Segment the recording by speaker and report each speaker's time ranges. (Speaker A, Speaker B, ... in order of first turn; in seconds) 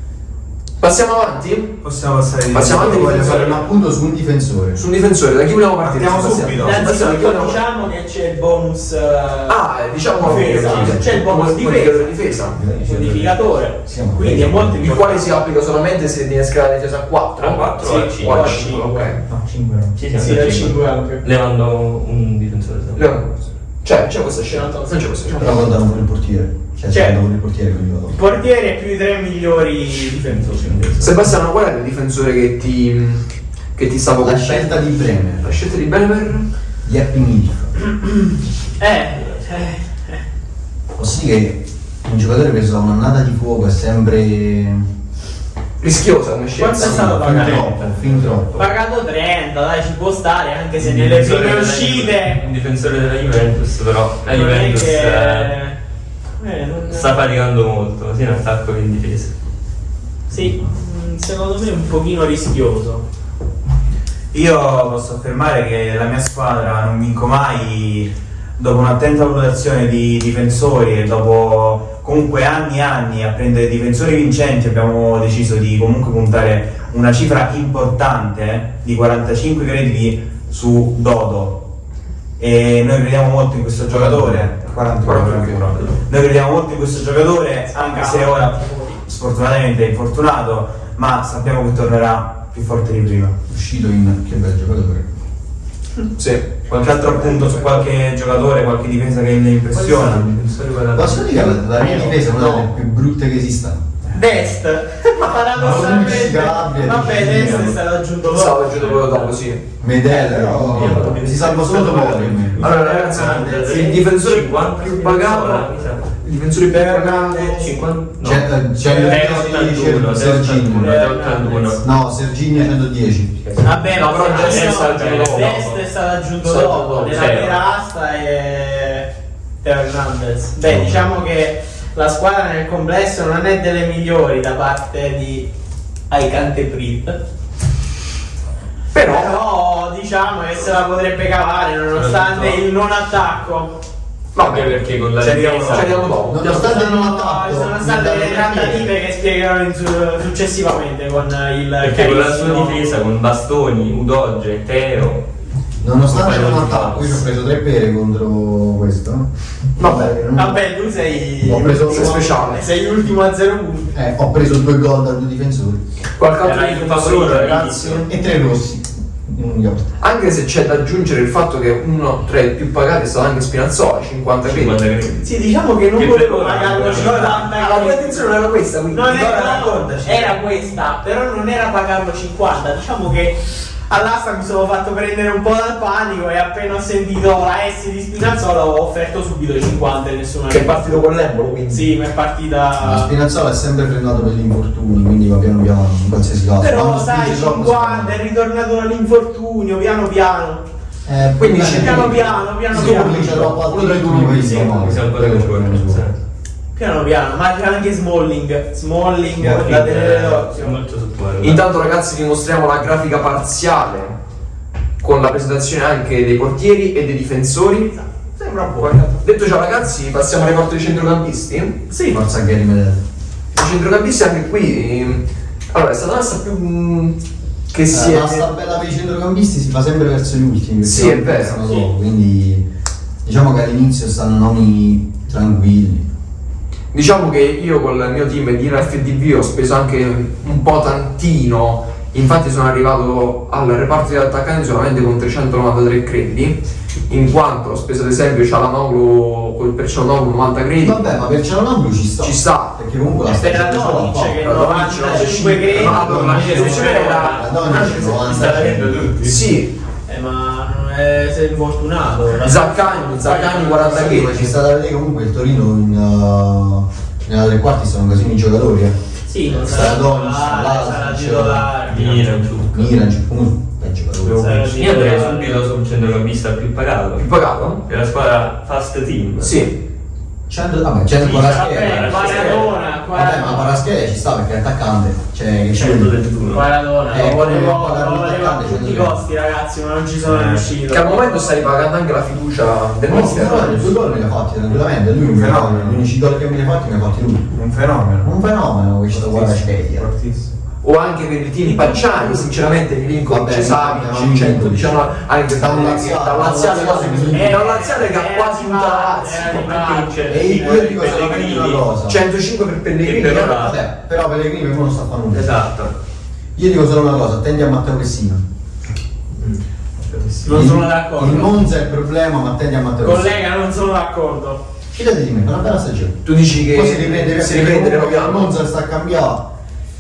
Speaker A: 0.8-1.8, 2.5-3.7, 4.8-7.6, 9.5-12.6, 14.8-19.2, 23.0-25.6, 31.0-33.2, 33.8-36.5, 45.8-47.0, 85.0-85.7, 96.2-97.8, 108.3-109.6, 112.6-117.7, 124.0-125.5, 126.4-127.2, 138.9-139.4, 144.3-144.8, 145.6-146.7, 159.8-160.2, 161.8-162.6, 166.2-168.0, 170.0-174.8, 177.5-179.2, 190.5-191.9, 201.4-204.9, 211.4-214.1, 215.0-218.0, 218.8-221.8, 223.5-227.2, 227.7-228.5, 230.8-231.6, 236.9-251.0, 252.2-252.8, 254.4-257.4, 259.2-259.8, 262.3-264.6, 277.1-277.8, 279.4-279.8, 282.3-282.7, 290.8-293.9, 300.8-310.1, 312.1-313.7, 326.2-328.6
Speaker B: 1.8-3.5, 5.8-6.8, 19.3-19.9, 64.3-81.6, 82.4-93.3, 96.7-100.3, 145.2-145.9, 176.9-177.5, 179.1-180.4, 274.2-274.5, 290.2-290.7, 295.2-296.1, 297.5-298.3, 299.1-300.5
Speaker C: 2.7-4.8, 10.3-10.9, 12.4-14.8, 25.4-28.4, 34.2-35.5, 36.8-37.7, 41.0-44.9, 46.8-48.5, 83.9-84.4, 93.5-95.1, 100.9-103.9, 105.6-107.7, 109.8-114.0, 118.2-121.0, 121.8-123.4, 130.7-131.2, 146.3-148.9, 155.8-160.6, 161.4-162.4, 163.9-165.8, 167.9-169.9, 192.8-198.2, 201.1-206.1, 222.1-223.0, 227.9-232.7, 233.2-236.1, 250.8-254.4, 255.7-259.1, 263.8-268.9, 269.5-271.8, 272.7-274.7, 280.5-282.4, 283.1-286.1, 287.1-289.2, 293.1-297.5, 298.2-300.1, 303.3-307.7, 310.3-312.2, 313.6-315.5, 316.6-318.4, 320.5-323.4, 324.9-326.2, 326.7-329.5
Speaker D: 6.6-12.2, 12.7-15.4, 17.8-19.1, 20.2-21.2, 24.5-25.7, 26.9-27.2, 28.1-30.8, 37.9-40.2, 46.5-47.7, 48.5-52.5, 54.3-55.8, 56.4-57.2, 60.3-63.0, 87.7-89.0, 101.8-102.7, 104.1-109.0, 110.1-112.4, 116.7-117.8, 118.8-119.8, 120.7-121.9, 123.6-129.1, 129.6-135.5, 136.1-137.2, 139.0-143.8, 146.4-153.0, 160.3-163.9, 175.2-193.1, 196.6-200.6, 201.6-203.5, 206.7-210.8, 221.9-222.2, 253.3-257.5, 260.1-264.4, 269.3-272.4, 274.4-275.7, 281.2-283.8, 286.5-291.6, 301.6-302.5, 307.3-310.7, 320.4-321.6, 323.0-324.6
Speaker E: 10.4-11.0, 17.4-19.0, 19.9-23.0, 30.3-31.3, 46.8-48.7, 50.8-55.5, 56.9-59.3, 99.7-101.6, 107.0-107.7, 108.8-109.3, 110.6-116.1, 117.5-121.8, 123.4-125.8, 127.1-127.6, 141.9-142.6, 144.4-146.2, 151.8-155.2, 156.1-157.3, 166.4-168.1, 174.4-177.4, 204.4-206.2, 209.4-211.7, 256.3-259.4, 271.9-272.9, 274.7-279.6, 281.2-282.7, 285.7-286.7, 309.9-311.9, 313.0-313.8, 315.3-315.9, 319.4-320.7